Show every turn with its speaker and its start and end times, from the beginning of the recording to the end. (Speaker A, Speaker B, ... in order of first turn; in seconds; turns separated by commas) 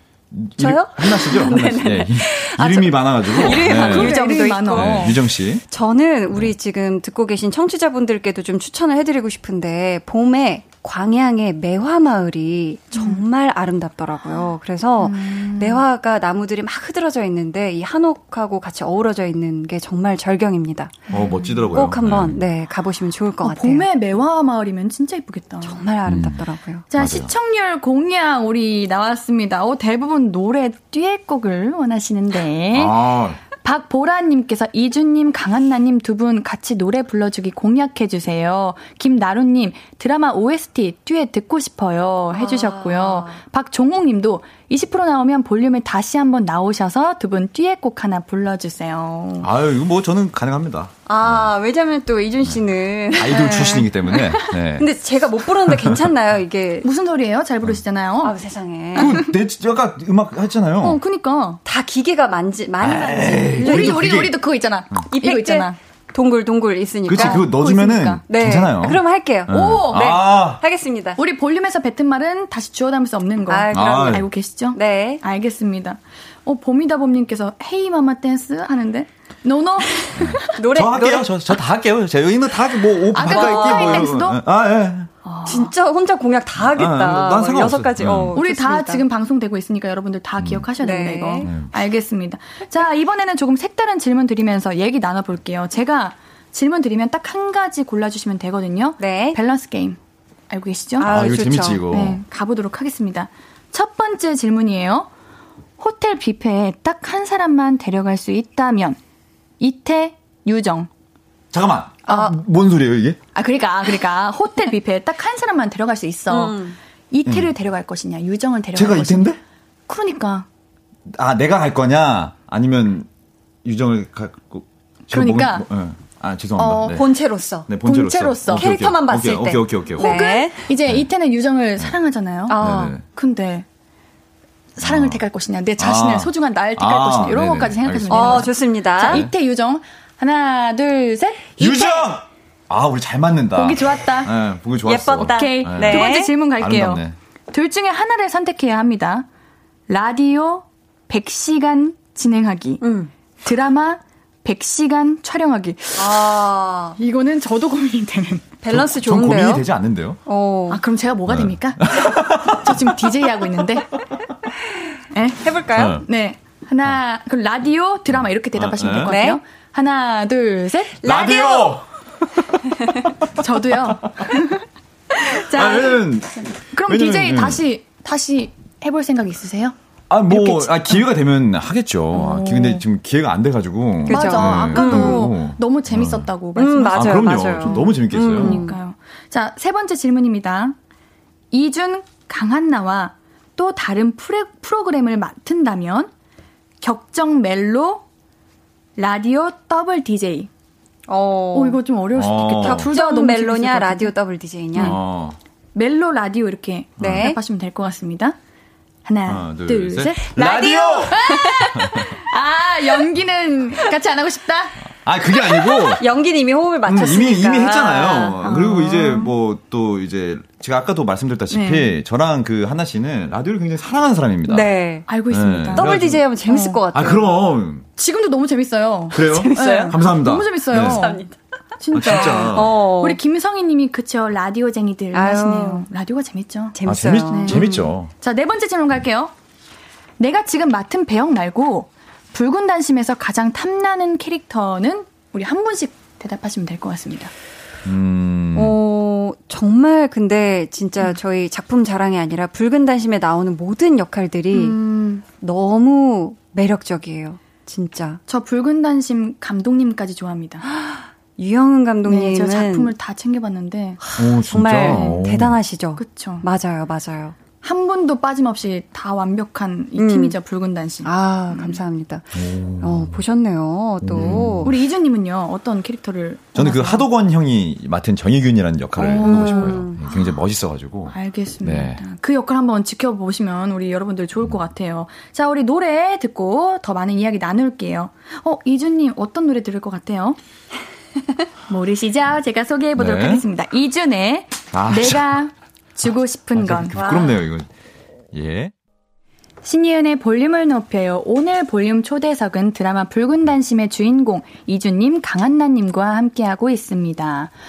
Speaker A: 0.3-5.6, Speaker B: 0.6-21.1, Speaker C: 3.4-5.2, Speaker C: 12.9-13.2, Speaker C: 15.0-15.8, Speaker C: 21.1-21.6, Speaker A: 21.1-22.4, Speaker B: 21.7-23.9, Speaker C: 23.4-25.8, Speaker B: 25.6-26.9, Speaker A: 26.1-27.3, Speaker C: 26.9-33.1, Speaker A: 32.7-33.4, Speaker C: 33.6-49.5, Speaker B: 42.3-43.4, Speaker A: 49.4-51.5, Speaker B: 51.1-53.8, Speaker A: 53.2-54.9, Speaker C: 53.4-53.6, Speaker B: 54.8-56.9, Speaker A: 55.7-56.0, Speaker C: 56.8-58.3, Speaker B: 58.2-59.2, Speaker A: 58.9-61.0, Speaker C: 59.0-59.3, Speaker C: 60.8-61.6, Speaker B: 61.6-64.1, Speaker A: 62.8-64.4, Speaker C: 63.6-65.8, Speaker B: 65.1-67.5, Speaker A: 67.1-70.6, Speaker C: 67.1-68.2, Speaker B: 68.3-71.2, Speaker C: 69.5-70.1, Speaker C: 71.2-80.5, Speaker B: 73.5-75.2, Speaker A: 73.7-74.2, Speaker A: 80.2-85.1, Speaker B: 80.5-81.4, Speaker C: 83.1-84.4, Speaker B: 83.2-84.1, Speaker C: 85.2-85.7, Speaker B: 85.5-89.0, Speaker A: 86.6-88.3, Speaker C: 88.3-100.0, Speaker A: 90.4-90.7, Speaker B: 90.8-91.5, Speaker A: 91.4-91.7, Speaker B: 99.0-99.4, Speaker C: 100.5-101.1, Speaker B: 101.0-101.8, Speaker A: 101.0-102.2, Speaker C: 101.9-105.1, Speaker C: 105.8-109.0, Speaker C: 109.6-110.9, Speaker A: 111.5-113.2, Speaker C: 113.3-116.6, Speaker B: 116.3-116.8, Speaker C: 117.1-119.3, Speaker A: 118.7-119.4, Speaker C: 119.9-120.5, Speaker A: 121.1-123.1, Speaker A: 123.6-127.0, Speaker C: 125.1-125.7, Speaker C: 126.6-127.0, Speaker B: 126.8-127.7, Speaker A: 127.7-130.1, Speaker C: 127.8-128.7, Speaker B: 128.5-130.6, Speaker C: 130.0-133.7, Speaker B: 132.5-132.9, Speaker A: 132.6-133.0, Speaker C: 134.8-142.1, Speaker A: 134.8-135.2, Speaker A: 135.8-138.5, Speaker B: 138.1-139.2, Speaker A: 141.6-147.2, Speaker C: 143.5-144.3, Speaker B: 144.8-146.3, Speaker C: 145.3-149.2, Speaker C: 149.9-152.8, Speaker B: 152.8-153.1, Speaker C: 153.4-156.3, Speaker B: 156.0-157.0, Speaker C: 157.0-158.5, Speaker B: 158.6-159.7, Speaker A: 158.7-160.2, Speaker B: 160.2-160.8, Speaker C: 160.7-163.9, Speaker A: 161.3-163.0, Speaker C: 165.1-165.4, Speaker B: 165.4-166.0, Speaker A: 165.7-166.0, Speaker C: 166.0-171.5, Speaker A: 168.1-169.1, Speaker B: 169.1-169.4, Speaker B: 171.0-171.7, Speaker A: 171.0-171.9, Speaker C: 173.4-174.6, Speaker C: 175.2-176.0, Speaker A: 175.5-177.6, Speaker C: 176.7-179.7, Speaker A: 180.1-186.3, Speaker C: 180.3-181.0, Speaker C: 182.1-182.8, Speaker C: 184.1-190.8, Speaker B: 184.1-185.3, Speaker B: 186.6-188.8, Speaker A: 186.9-188.6, Speaker C: 191.5-196.1, Speaker C: 196.8-198.0, Speaker C: 199.0-200.5, Speaker B: 201.1-201.8, Speaker C: 201.5-204.1, Speaker A: 202.1-202.9, Speaker B: 202.5-205.0, Speaker A: 204.8-205.4, Speaker C: 205.7-208.3, Speaker A: 207.0-207.3, Speaker B: 207.0-207.4, Speaker C: 209.0-214.8, Speaker A: 209.3-212.1, Speaker B: 210.4-211.7, Speaker A: 215.0-216.0, Speaker B: 215.6-218.8, Speaker A: 216.8-224.7, Speaker C: 218.4-219.3, Speaker C: 221.5-221.9, Speaker B: 224.5-225.1, Speaker C: 225.1-225.9, Speaker A: 225.3-226.2, Speaker B: 225.7-227.3, Speaker C: 226.4-226.8, Speaker A: 226.9-227.9, Speaker C: 228.0-231.2, Speaker A: 229.1-231.0, Speaker B: 229.2-230.1, Speaker B: 230.7-231.3, Speaker C: 231.8-236.7, Speaker A: 231.9-232.8, Speaker B: 232.0-233.2, Speaker B: 235.1-235.8, Speaker B: 236.7-237.9, Speaker A: 236.8-238.1, Speaker C: 237.3-239.3, Speaker C: 240.2-247.3, Speaker A: 247.8-248.8, Speaker B: 248.5-258.2, Speaker C: 254.5-255.2, Speaker C: 258.3-260.6, Speaker B: 260.7-262.9, Speaker C: 262.0-264.0, Speaker B: 264.0-267.4, Speaker A: 264.2-265.6, Speaker C: 264.8-265.2, Speaker C: 266.0-266.4, Speaker C: 267.6-271.8, Speaker B: 269.9-270.4, Speaker B: 271.0-274.7, Speaker A: 272.3-273.2, Speaker A: 274.0-274.7, Speaker C: 274.2-277.1, Speaker A: 276.5-282.0, Speaker C: 279.0-280.1, Speaker B: 279.1-280.0, Speaker C: 281.1-290.4, Speaker C: 291.7-296.9, Speaker A: 293.0-293.4, Speaker A: 294.7-295.4, Speaker A: 296.5-297.7, Speaker B: 296.9-297.4, Speaker A: 298.3-298.7, Speaker C: 299.6-307.5